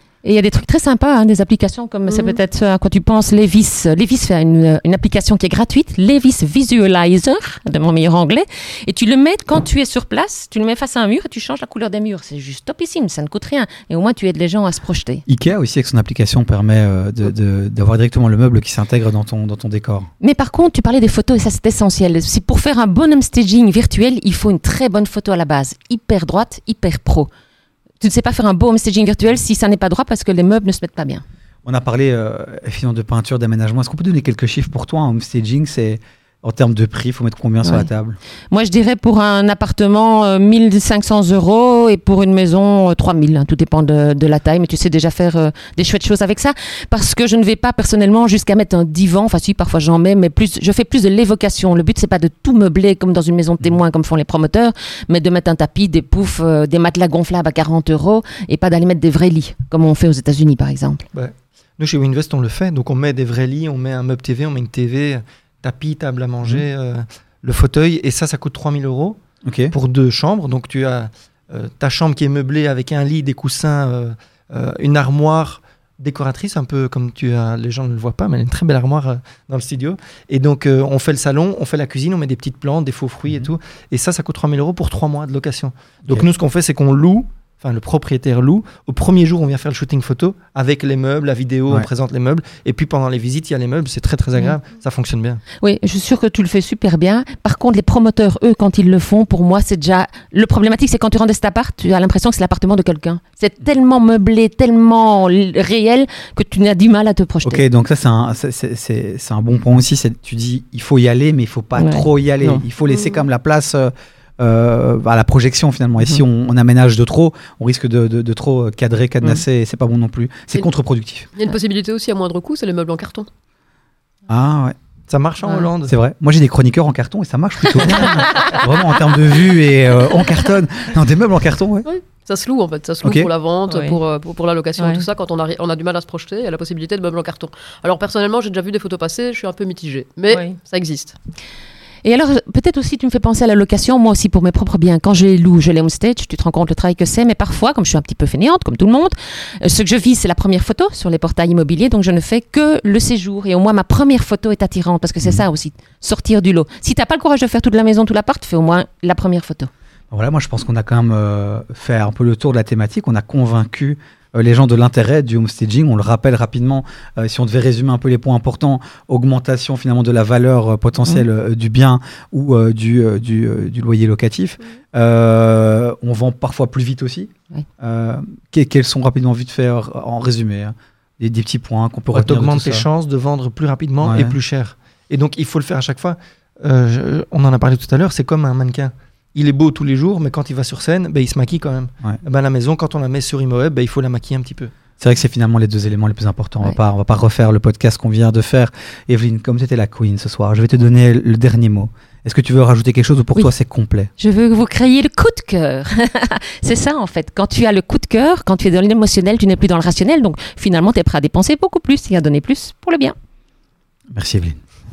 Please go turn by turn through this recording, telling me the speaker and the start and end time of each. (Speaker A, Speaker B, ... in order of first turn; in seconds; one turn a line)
Speaker A: 0.2-15.2
Speaker B: 2.1-2.4
Speaker C: 15.3-20.1
Speaker A: 20.2-27.3
Speaker A: 28.0-31.2
Speaker C: 31.6-38.2
Speaker A: 37.6-37.9
Speaker A: 38.5-61.0
Speaker D: 61.1-69.2
Speaker C: 69.5-69.7
Speaker D: 69.7-95.4
Speaker A: 95.6-107.6
Speaker C: 107.5-121.3
Speaker A: 111.8-112.7
Speaker B: 112.9-113.3
Speaker B: 121.3-123.3
Speaker C: 124.3-124.8
Speaker D: 125.1-126.0
Speaker A: 125.5-125.7
Speaker C: 125.9-131.9
Speaker A: 127.7-128.5
Speaker B: 131.9-141.2
Speaker C: 133.0-133.3
Speaker A: 133.7-134.0
Speaker A: 134.8-135.1
Speaker A: 142.0-159.7
Speaker C: 160.1-182.9
Speaker D: 182.1-194.7
Speaker C: 184.0-184.4
Speaker C: 195.0-204.1
Speaker A: 204.2-213.2
Speaker C: 214.1-214.6